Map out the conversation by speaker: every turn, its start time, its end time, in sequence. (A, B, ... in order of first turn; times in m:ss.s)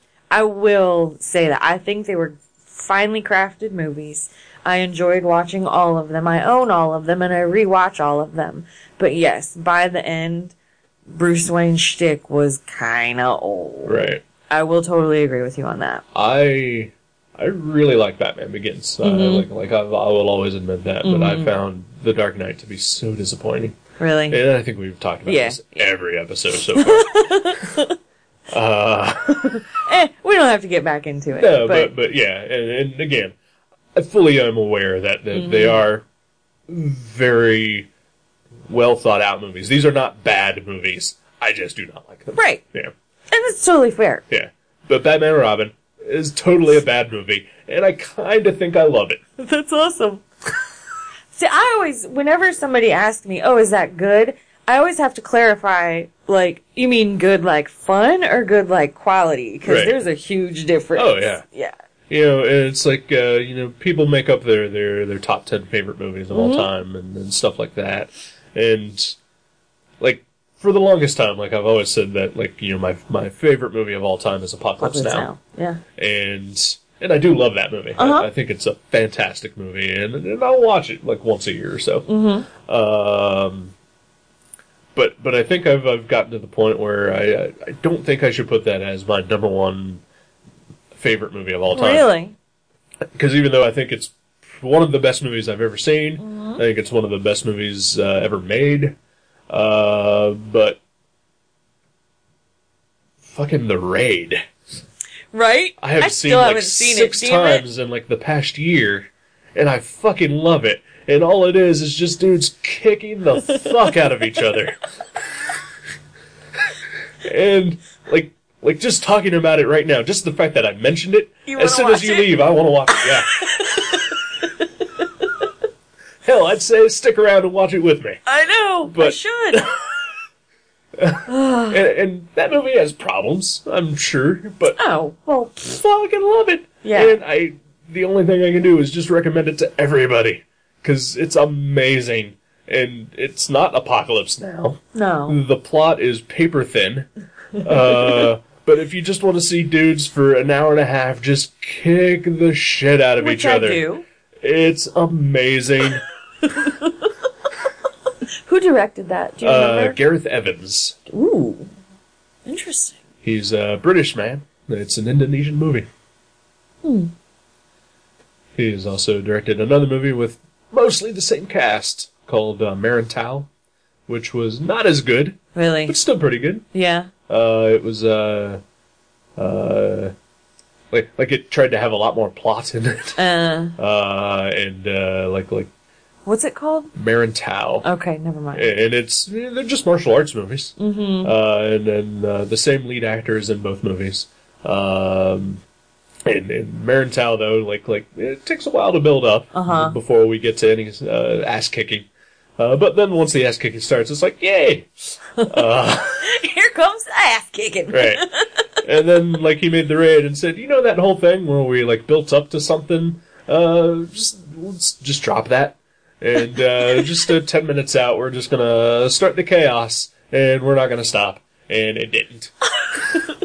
0:00.3-0:10.5 A
0:11.1-0:16.0 A
0:13.8-0:14.2 B
0:16.1-0:23.8 B
0:19.0-0:19.5 A
0:21.0-0:21.6 A
0:24.0-0:24.4 A
0:24.3-0:27.5 B
0:25.3-0:25.9 A
0:26.8-0:28.0 A
0:28.5-0:29.6 B
0:29.4-0:31.9 A
0:31.4-0:33.4 B
0:34.0-0:36.0 B
0:35.3-0:35.8 A
0:36.7-0:37.9 B
0:38.7-0:42.9 B
0:42.4-0:42.6 A
0:43.3-0:44.2 A
0:44.3-0:49.2 B
0:49.4-0:50.2 A
0:51.3-1:01.7 A
0:59.6-1:00.0 B
1:01.0-1:01.4 B
1:02.1-1:09.2 B
1:06.3-1:06.7 A
1:10.0-1:15.3 B
1:14.8-1:15.8 A
1:16.0-1:23.7 B
1:18.0-1:18.3 A
1:22.1-1:22.5 A
1:25.0-1:30.0 B
1:30.9-1:32.1 B
1:31.7-1:32.4 A
1:33.2-1:39.0 B
1:36.2-1:36.6 A
1:39.5-1:40.8 B
1:43.3-1:44.4 B
1:45.3-1:47.6 A
1:45.8-1:54.8 B
1:57.2-2:03.8 B
2:01.5-2:04.0 A
2:06.2-2:08.2 B
2:08.3-2:09.7 A
2:08.9-2:09.7 B
2:11.0-2:14.8 B
2:11.3-2:11.8 A
2:14.8-2:15.6 A
2:15.6-2:27.1 B
2:16.8-2:17.2 A
2:24.9-2:25.4 A
2:27.6-2:33.8 B
2:33.2-2:34.0 A
2:34.4-2:36.0 B
2:36.6-2:36.9 A
2:38.5-2:40.0 A
2:39.4-2:41.0 B
2:41.1-2:41.7 A
2:42.5-2:43.0 A
2:43.2-2:45.9 B
2:46.8-2:47.1 A
2:48.6-2:53.5 B
2:54.1-2:56.6 B
2:55.6-2:56.0 A
2:56.7-2:57.1 A
2:57.3-2:58.6 B
2:59.4-3:00.1 B
3:00.9-3:03.2 B
3:03.2-3:03.8 A
3:03.8-3:05.7 B
3:06.3-3:06.9 A
3:07.0-3:07.9 B
3:07.8-3:08.7 A
3:08.5-3:15.6 B
3:10.8-3:11.3 A
3:16.2-3:22.1 B
3:19.5-3:20.0 A
3:22.6-3:26.3 B
3:26.2-3:28.6 A
3:27.9-3:28.2 B
3:28.8-3:42.5 B